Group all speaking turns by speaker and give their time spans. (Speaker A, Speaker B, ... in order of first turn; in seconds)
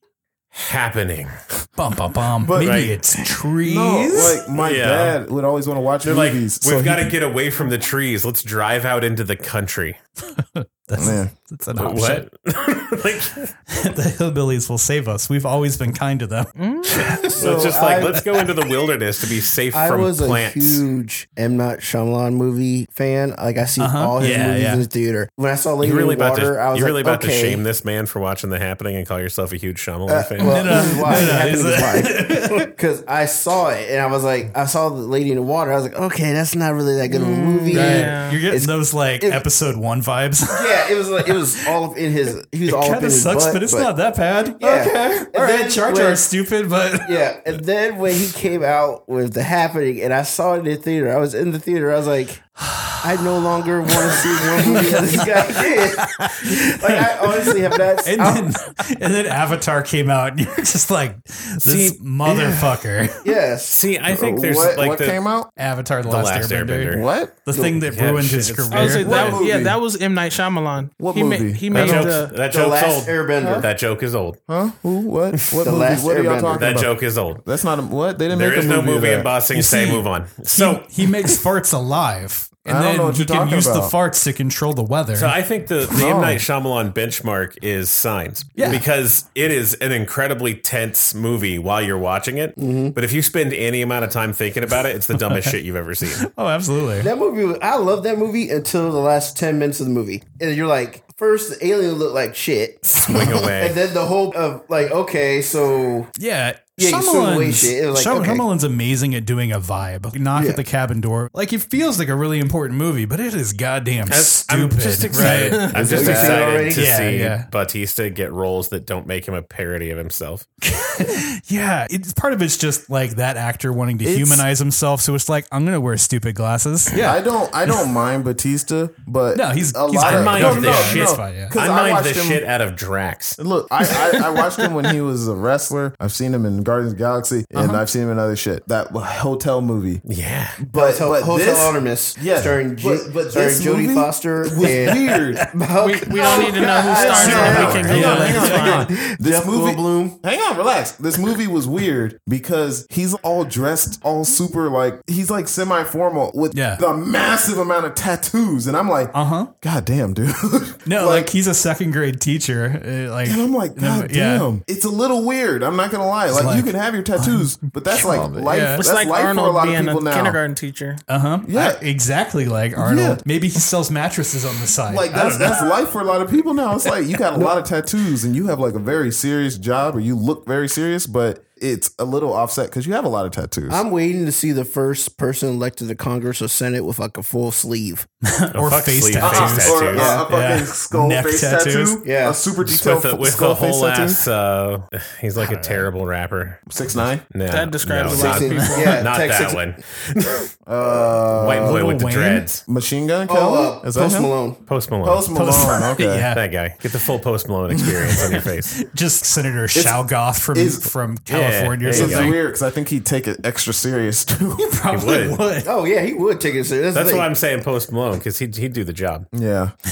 Speaker A: 0.5-1.3, 2.6-3.0, 4.5-5.2, 6.0-10.0, 11.7-13.5, 17.4-20.8, 25.8-30.6, 63.7-65.2, 66.0-67.0, 67.8-69.4, 71.7-74.4, 75.4-75.6, 76.5-77.4, 78.3-81.0, 85.1-96.3, 103.0-103.8, 114.1-120.5, 130.0-133.4, 140.1-140.6, 147.4-148.2, 188.5-190.1, 192.7-196.7, 197.3-200.5, 201.3-202.6, 204.7-205.3, 206.3-208.8, 211.3-212.4, 214.9-215.4, 216.9-219.3
Speaker B: 1.8-4.4, 10.3-12.2, 13.7-17.4, 23.8-24.8, 30.4-32.7, 37.7-41.7, 42.6-47.6, 52.6-53.2, 53.9-63.3, 65.6-69.3, 79.5-85.3, 88.5-88.8, 95.1-95.5, 96.2-97.1, 106.2-116.1, 116.7-117.5, 120.6-127.2, 129.3-131.6, 147.2-148.6, 156.5-156.8, 159.1-159.5, 160.8-164.5, 166.3-168.8, 171.1-175.7, 188.2-192.0, 195.4-195.9, 198.5-198.9, 201.6-202.5, 205.3-206.4, 207.8-212.4, 214.6-215.7
Speaker C: 2.4-7.1, 10.9-11.3, 64.1-65.5, 66.9-67.5, 69.0-69.8, 71.0-72.2, 73.4-73.7, 74.5-79.3, 82.7-83.9, 85.9-86.4, 115.8-116.4, 124.0-124.5, 126.9-132.4, 133.4-140.0, 140.6-145.5, 146.1-161.3, 163.2-170.4, 171.4-171.8, 172.8-173.2, 174.9-183.8, 189.2-194.2, 196.7-197.3, 200.7-201.8, 202.7-204.3, 205.0-206.3, 209.7-210.9, 211.8-214.7, 219.3-219.7
Speaker D: 16.6-17.2, 30.6-30.9, 37.1-38.5, 68.7-72.4, 115.2-116.0, 145.8-148.9, 168.7-171.0, 197.5-199.1
Speaker E: 17.1-18.4, 19.7-27.6, 30.1-39.5, 40.5-43.9, 44.6-46.2, 47.0-52.4, 53.0-58.5, 63.2-63.8, 72.4-73.7, 75.6-76.7, 92.6-93.0, 97.0-106.1, 106.8-108.4, 110.3-110.6, 115.9-116.9, 140.7-150.2, 177.3-177.6, 183.7-188.1, 189.9-190.3, 192.0-192.4, 198.1-199.6, 200.8-201.1, 203.3-204.6, 215.6-217.3